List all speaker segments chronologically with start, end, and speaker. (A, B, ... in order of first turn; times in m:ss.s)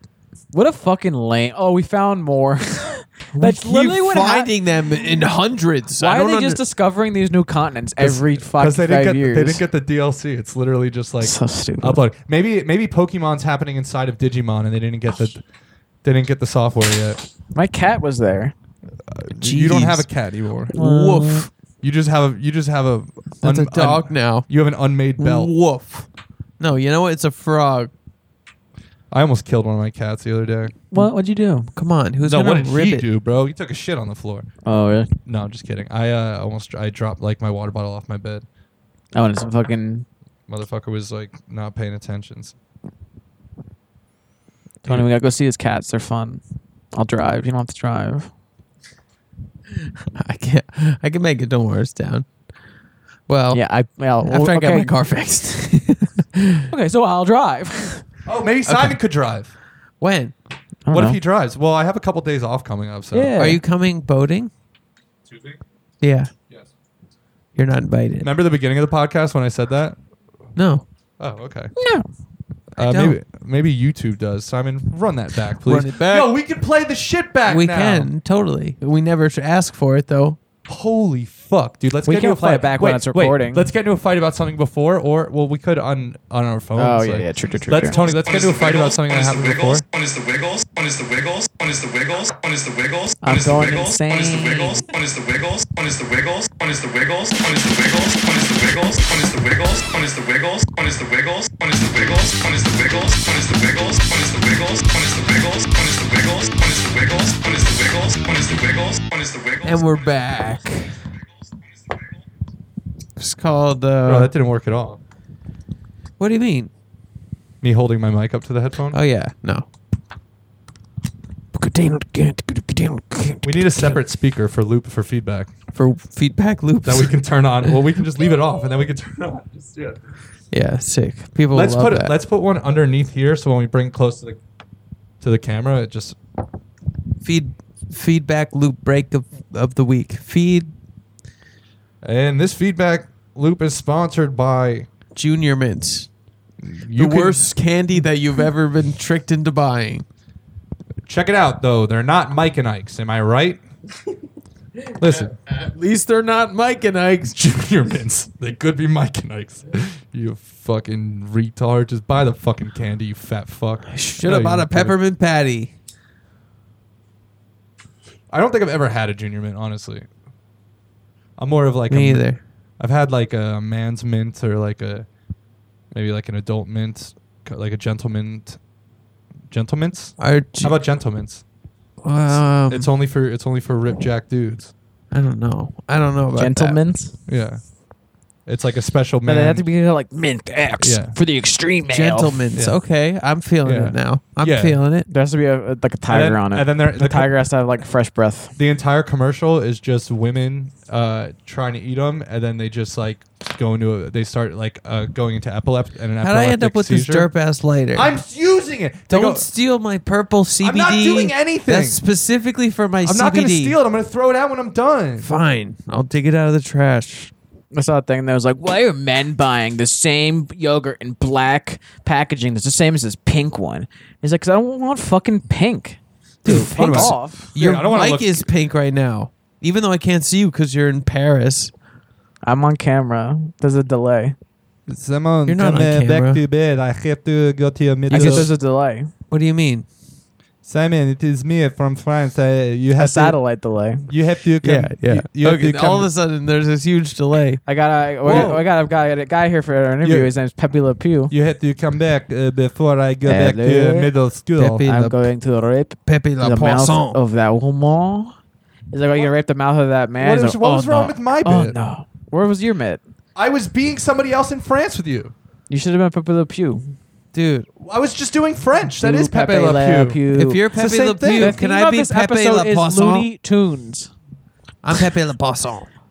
0:00.5-0:04.5 A
0:03.3-0:06.6 B
0:06.0-0:09.6 A
0:08.0-0:15.4 C
0:11.2-0:12.0 A
0:16.0-0:17.2 C
0:17.5-0:18.5 A
0:19.0-0:20.7 C
0:19.3-0:20.1 B
0:20.7-0:21.5 B
0:20.7-0:21.5 A
0:21.8-0:25.5 C
0:23.4-0:24.5 B
0:25.2-0:26.1 B
0:26.6-0:27.9 B
0:29.1-0:30.7 C
0:30.9-0:31.7 A
0:31.7-0:33.1 B
0:32.2-0:34.5 C
0:34.6-0:35.1 A
0:35.2-0:38.4 C
0:39.1-0:40.0 A
0:40.5-0:42.5 C
0:44.8-0:46.4 A
0:46.9-0:48.3 A
0:50.1-0:52.3 B
0:53.3-0:53.6 B
0:53.5-0:54.9 A
0:54.2-0:56.7 B
0:56.7-0:58.0 A
0:58.2-0:59.5 C
0:58.6-0:59.0 B
1:00.0-1:00.3 B
1:00.9-1:01.2 A
1:00.9-1:03.3 C
1:03.1-1:03.6 A
1:03.4-1:04.5 B
1:05.3-1:05.6 C
1:06.0-1:06.3 B
1:07.6-1:08.3 B
1:08.2-1:10.0 C
1:10.6-1:10.8 B
1:11.2-1:11.7 C
1:11.8-1:12.1 A
1:12.7-1:18.1 C
1:12.8-1:13.2 B
1:15.6-1:16.3 B
1:17.5-1:20.4 B
1:20.6-1:49.8 C
1:22.0-1:23.6 A
1:26.8-1:28.0 A
1:33.2-1:34.9 A
1:49.6-1:50.9 B
1:53.2-1:54.3 B
1:54.0-1:55.0 C
1:56.2-1:56.7 B
1:57.6-1:59.0 C
1:58.9-1:59.6 B
2:01.5-2:03.4 B
2:03.4-2:05.5 C
2:05.7-2:07.7 B
2:06.8-2:10.0 C
2:10.5-2:12.2 B
2:11.5-2:14.4 C
2:15.2-2:16.2 C
2:17.2-2:20.7 B
2:22.0-2:24.9 C
2:25.1-2:26.1 B
2:26.6-2:27.5 C
2:26.9-2:30.0 B
2:31.0-2:33.6 C
2:35.0-2:35.3 C
2:35.0-2:37.4 B
2:37.2-2:45.0 C
2:43.9-2:45.7 B
2:48.3-2:50.1 C
2:51.4-2:55.1 C
2:51.9-2:52.4 B
2:55.9-2:58.6 C
2:59.5-3:01.4 C
3:00.2-3:00.8 B
3:02.0-3:02.9 B
3:02.3-3:04.7 C
3:05.1-3:06.8 B
3:06.4-3:07.1 A
3:07.2-3:07.6 C
3:08.4-3:09.6 C
3:09.2-3:12.4 A
3:10.8-3:11.2 C
3:11.9-3:15.1 B
3:12.5-3:12.8 C
3:13.6-3:14.8 C
3:15.1-3:18.5 A
3:16.1-3:17.3 C
3:18.6-3:27.3 C
3:26.2-3:28.1 B
3:27.9-3:29.5 C
3:29.1-3:33.8 B
3:30.6-3:32.0 C
3:33.0-3:35.3 C
3:35.2-3:37.3 B
3:37.7-3:47.5 A
3:46.4-3:51.7 B
3:46.4-3:48.5 C
3:52.4-3:54.4 A
3:54.9-3:58.5 C
3:55.5-3:56.4 B
3:58.1-3:58.5 B
3:58.1-3:59.1 A
3:59.3-3:59.8 B
4:00.6-4:03.4 C
4:03.0-4:04.1 A
4:04.1-4:06.1 C
4:04.6-4:07.6 B
4:07.6-4:11.3 A
4:08.2-4:08.7 C
4:08.2-4:08.5 B
4:10.0-4:10.3 C
4:11.3-4:14.9 C
4:13.2-4:14.1 A
4:14.6-4:15.3 B
4:14.8-4:18.3 A
4:16.0-4:17.2 B
4:18.9-4:23.0 A
4:20.2-4:21.8 C
4:23.3-4:25.3 C
4:25.7-4:26.9 A
4:27.3-4:27.7 B
4:27.8-4:31.6 C
4:29.0-4:30.6 A
4:30.3-4:33.3 B
4:31.3-4:34.1 A
4:34.8-4:35.9 B